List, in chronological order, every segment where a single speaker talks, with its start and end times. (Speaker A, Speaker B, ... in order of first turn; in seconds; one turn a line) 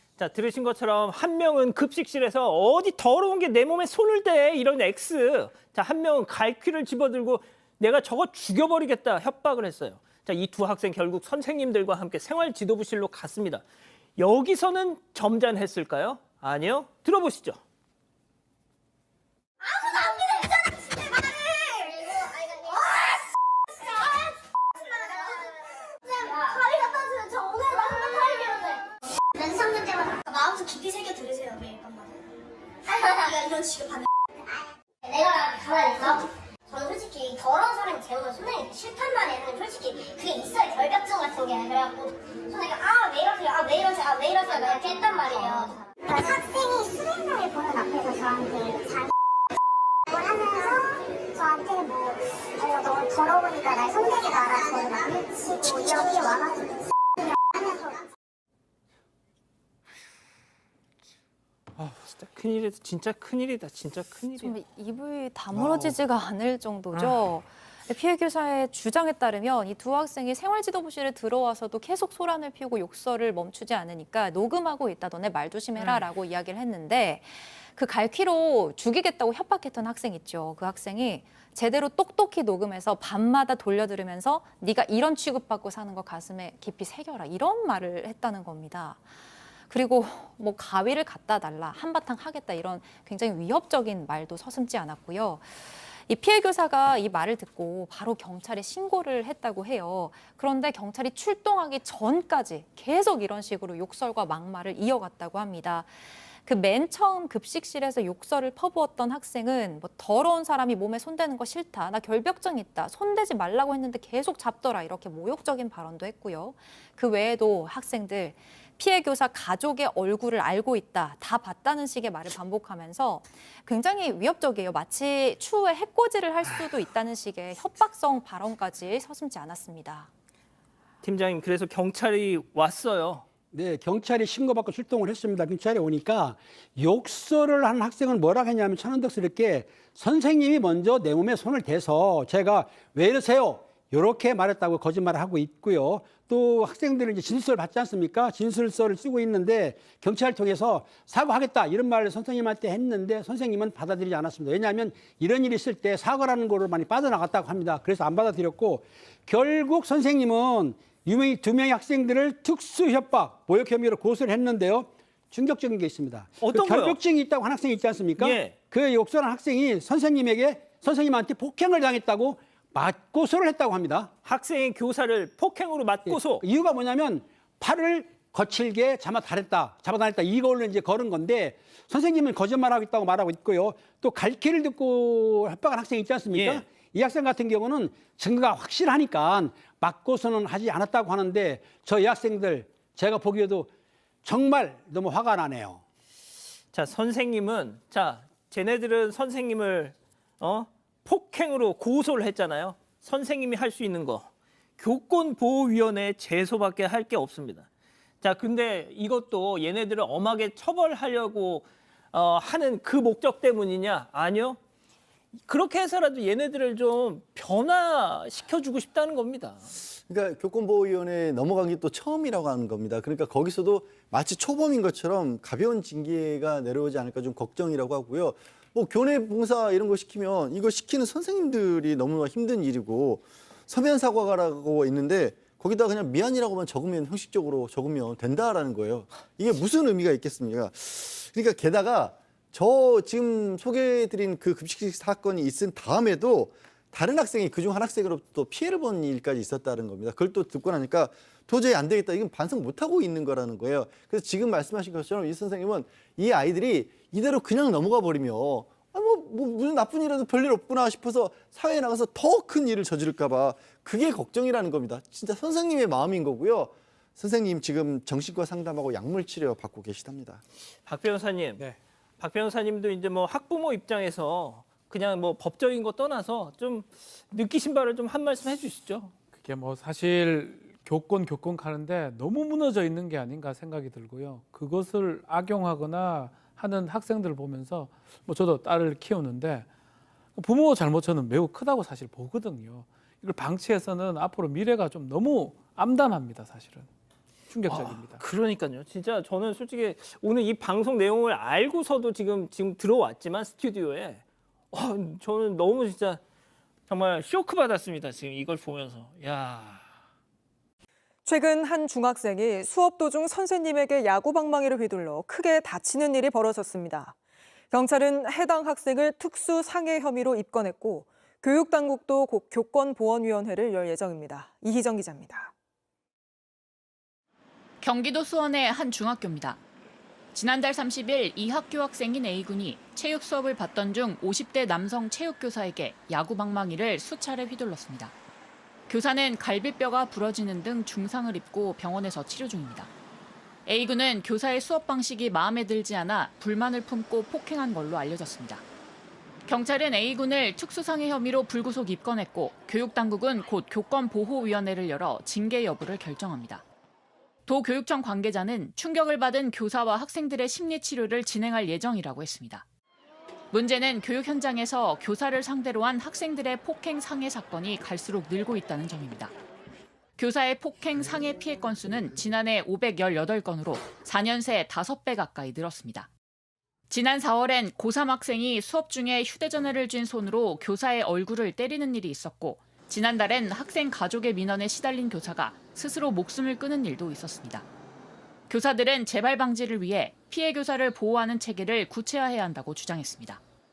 Speaker A: 0.2-13.6
Speaker A: 14.2-17.6
Speaker B: 19.6-32.2
Speaker B: 32.8-34.1
Speaker B: 35.0-45.9
Speaker C: 46.0-49.1
Speaker C: 50.1-58.0
Speaker A: 61.8-64.6
Speaker D: 64.4-89.1
Speaker E: 65.5-65.9
Speaker D: 89.7-130.1
Speaker A: 131.0-133.3
Speaker F: 133.5-174.1
Speaker A: 166.4-167.0
Speaker A: 168.2-168.6
Speaker A: 174.2-176.5
Speaker F: 176.1-193.7
Speaker A: 186.3-186.7
Speaker F: 194.2-195.8
Speaker A: 196.7-204.3
Speaker A: 204.8-207.7
Speaker A: 208.2-214.6
Speaker A: 215.5-219.7
Speaker E: 220.1-270.4
Speaker A: 270.9-279.1
Speaker G: 279.3-289.7
Speaker G: 290.4-296.9
Speaker G: 297.5-298.2
Speaker A: 297.7-306.2
Speaker A: 306.9-309.8
Speaker H: 311.3-317.1
Speaker H: 317.7-325.5
Speaker I: 327.8-329.6
Speaker I: 330.3-338.1
Speaker I: 338.9-342.9
Speaker I: 343.7-348.6
Speaker I: 349.5-356.6
Speaker I: 357.5-362.6
Speaker I: 363.5-369.3
Speaker I: 370.2-376.1
Speaker I: 376.9-387.6
Speaker I: 388.5-393.4